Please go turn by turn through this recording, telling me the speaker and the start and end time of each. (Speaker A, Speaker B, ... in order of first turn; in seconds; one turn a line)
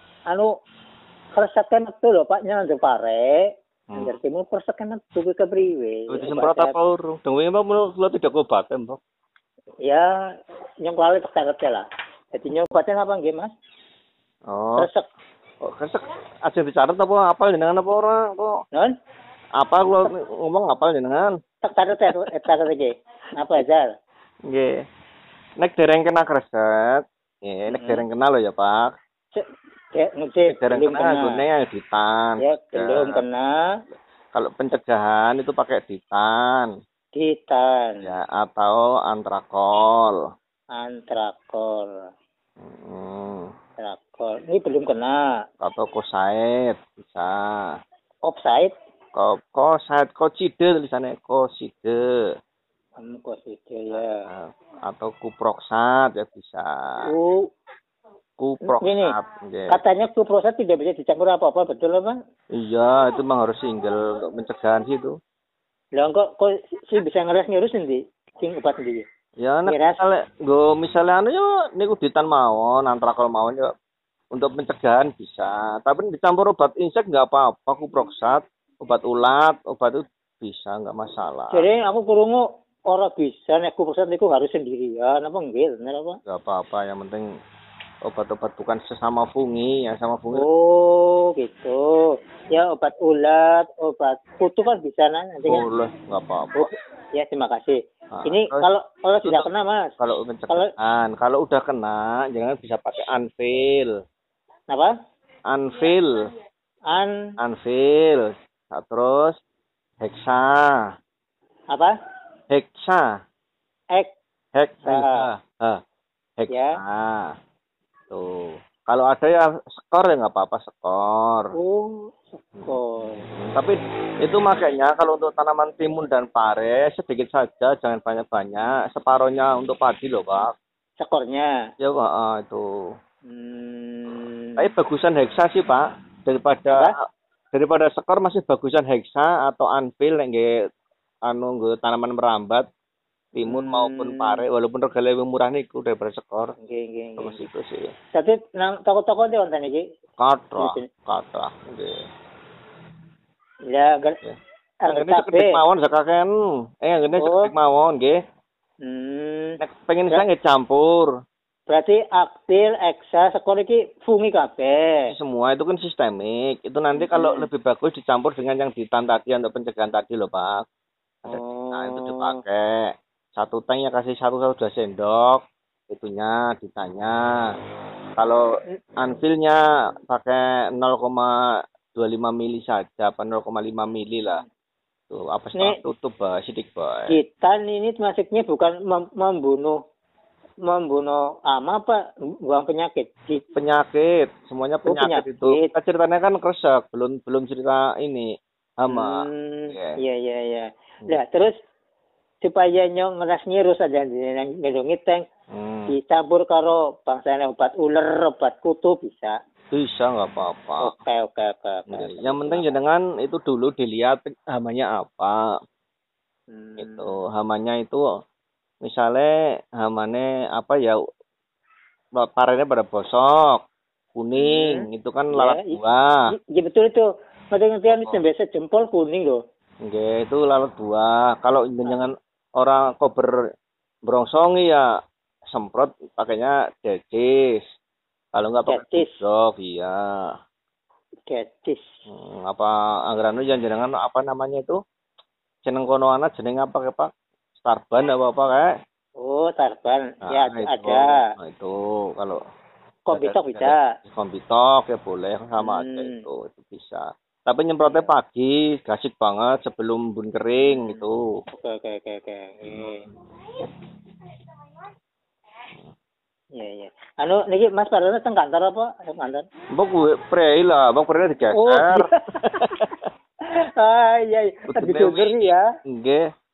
Speaker A: 1.4-6.8
Speaker B: 6.1-9.0
Speaker A: 10.8-13.5
Speaker B: 14.5-14.9
Speaker A: 14.8-15.0
Speaker B: 15.7-18.5
Speaker B: 19.6-21.4
Speaker A: 21.6-23.9
Speaker B: 21.9-22.3
Speaker B: 24.5-24.8
Speaker B: 25.6-28.9
Speaker A: 27.7-28.0
Speaker A: 29.3-31.4
Speaker B: 30.5-33.2
Speaker A: 32.4-33.5
Speaker B: 34.3-36.7
Speaker A: 37.1-38.1
Speaker B: 38.0-40.2
Speaker A: 40.8-41.9
Speaker B: 42.6-43.5
Speaker A: 43.8-45.2
Speaker B: 45.6-47.7
Speaker A: 48.3-48.7
Speaker B: 49.1-52.0
Speaker A: 53.0-54.2
Speaker B: 53.9-56.7
Speaker B: 58.4-59.8
Speaker A: 58.7-59.1
Speaker A: 59.7-62.1
Speaker B: 62.6-65.1
Speaker A: 66.0-69.0
Speaker B: 69.4-73.7
Speaker A: 69.7-70.0
Speaker B: 74.3-81.7
Speaker A: 81.5-86.2
Speaker B: 86.3-87.2
Speaker B: 88.0-90.4
Speaker A: 90.3-91.8
Speaker A: 92.5-95.6
Speaker B: 95.5-96.7
Speaker A: 96.6-99.9
Speaker B: 98.1-98.7
Speaker B: 99.2-99.5
Speaker B: 100.0-103.9
Speaker B: 105.5-106.1
Speaker B: 107.4-109.3
Speaker B: 110.0-110.7
Speaker B: 112.5-113.0
Speaker B: 114.5-115.8
Speaker A: 114.8-115.3
Speaker B: 116.4-117.3
Speaker A: 116.5-116.8
Speaker B: 118.1-121.5
Speaker A: 121.5-123.3
Speaker B: 123.4-130.5
Speaker A: 131.0-131.5
Speaker B: 131.8-132.7
Speaker A: 133.3-134.7
Speaker B: 134.6-136.9
Speaker B: 137.5-140.5
Speaker B: 141.3-142.7
Speaker B: 143.3-146.5
Speaker A: 143.5-144.4
Speaker A: 146.6-147.4
Speaker B: 147.2-147.9
Speaker A: 148.1-149.8
Speaker B: 150.2-151.9
Speaker A: 150.6-150.8
Speaker A: 153.7-154.2
Speaker A: 154.8-155.6
Speaker B: 154.9-156.3
Speaker B: 156.8-158.2
Speaker A: 157.2-157.5
Speaker A: 158.8-159.6
Speaker B: 159.6-161.1
Speaker A: 161.7-165.1
Speaker B: 165.1-170.6
Speaker A: 167.0-167.5
Speaker B: 171.2-177.2
Speaker A: 171.3-172.4
Speaker B: 178.2-178.4
Speaker B: 179.0-181.3
Speaker B: 181.9-184.4
Speaker B: 185.1-187.2
Speaker A: 187.1-189.8
Speaker A: 190.7-193.4
Speaker B: 193.6-198.3
Speaker A: 194.9-195.7
Speaker B: 198.8-199.2
Speaker A: 198.9-201.5
Speaker B: 199.7-200.0
Speaker A: 202.4-205.2
Speaker B: 205.5-205.9
Speaker A: 205.9-209.3
Speaker B: 209.7-210.9
Speaker A: 210.8-212.8
Speaker B: 211.9-215.4
Speaker A: 216.5-217.1
Speaker B: 216.8-218.0
Speaker B: 218.8-221.0
Speaker B: 222.2-223.6
Speaker B: 224.2-226.1
Speaker A: 224.4-225.8
Speaker A: 226.3-229.4
Speaker B: 227.9-228.2
Speaker B: 229.9-233.3
Speaker B: 234.1-234.8
Speaker B: 235.5-237.6
Speaker B: 238.3-240.2
Speaker A: 238.7-239.2
Speaker A: 241.3-241.8
Speaker B: 242.1-244.8
Speaker B: 245.6-248.7
Speaker A: 249.2-251.2
Speaker B: 250.2-252.4
Speaker A: 253.1-253.8
Speaker B: 253.1-261.2
Speaker A: 255.6-256.2
Speaker A: 257.9-258.1
Speaker A: 260.6-263.1
Speaker B: 262.6-262.9
Speaker A: 266.6-269.5
Speaker B: 269.8-272.9
Speaker A: 271.5-272.7
Speaker A: 273.5-275.6
Speaker B: 274.7-276.2